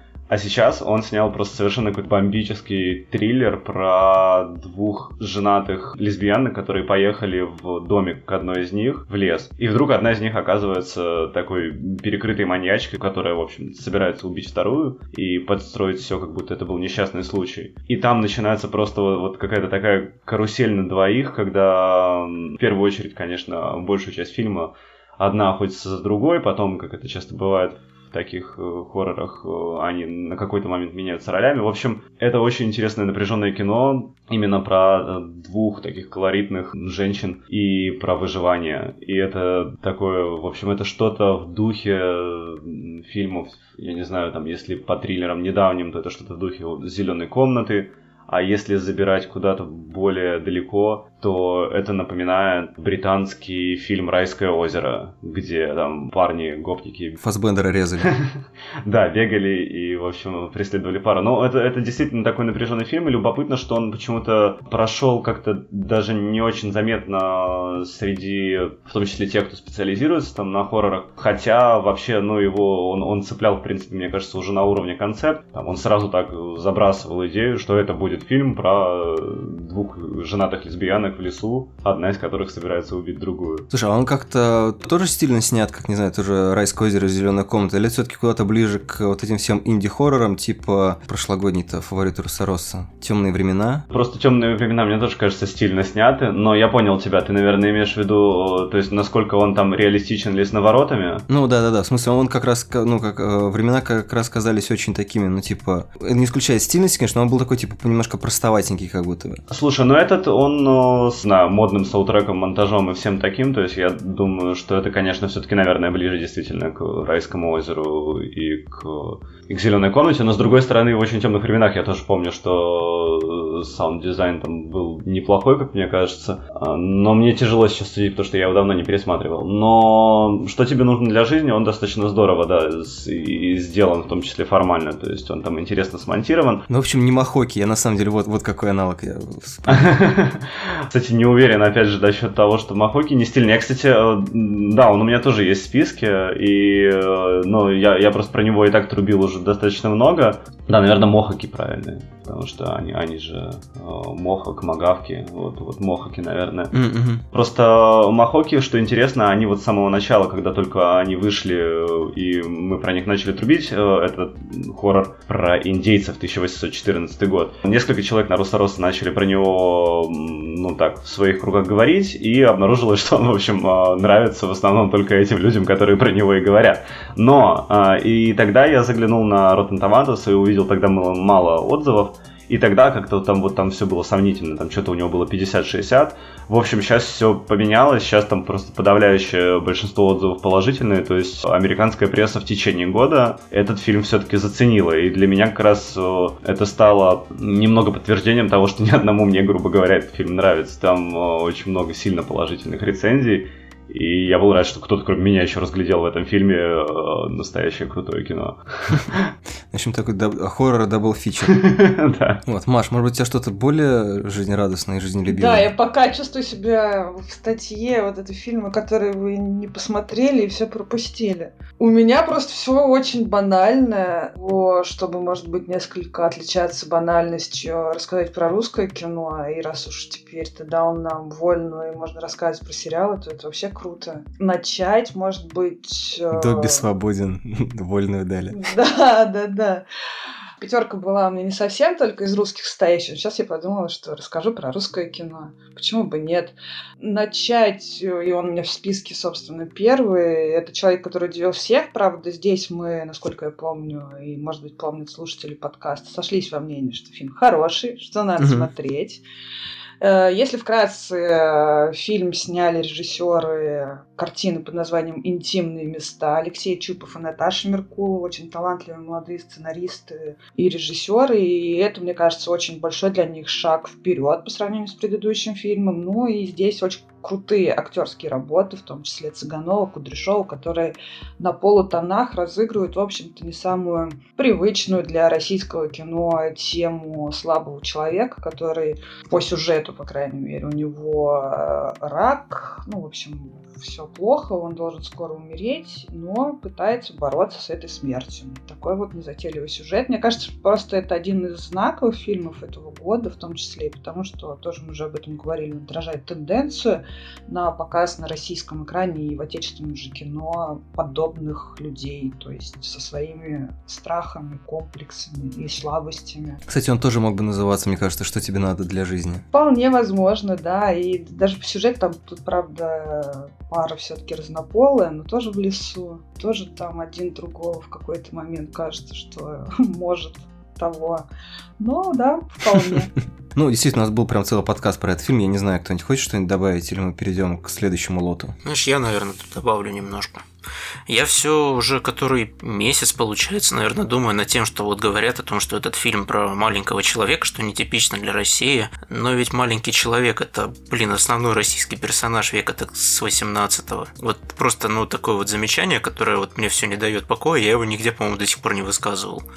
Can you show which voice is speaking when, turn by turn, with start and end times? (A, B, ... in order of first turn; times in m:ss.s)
0:00.3-0:57.2 A
0:57.2-0:58.1 B
0:58.0-0:58.3 A
0:58.8-1:23.7 A
1:23.7-1:33.9 B
1:33.9-1:41.2 A
1:41.3-1:49.4 B
1:49.5-2:16.7 A
2:16.7-2:20.0 B
2:19.7-2:36.7 A
2:36.7-2:37.2 B
2:37.3-3:29.3 A
3:29.7-3:31.7 B
3:31.5-3:32.4 A
3:32.4-3:35.7 B
3:35.3-3:56.9 C
3:56.3-3:58.6 B
3:58.5-3:59.9 C
4:00.6-4:19.2 C
4:18.4-4:18.7 B
4:20.0-5:16.6 C
5:16.7-5:19.4 B
5:19.5-5:31.3 C
5:31.8-5:33.1 C
5:33.6-5:38.6 B
5:38.6-5:40.4 D
5:41.1-5:59.4 D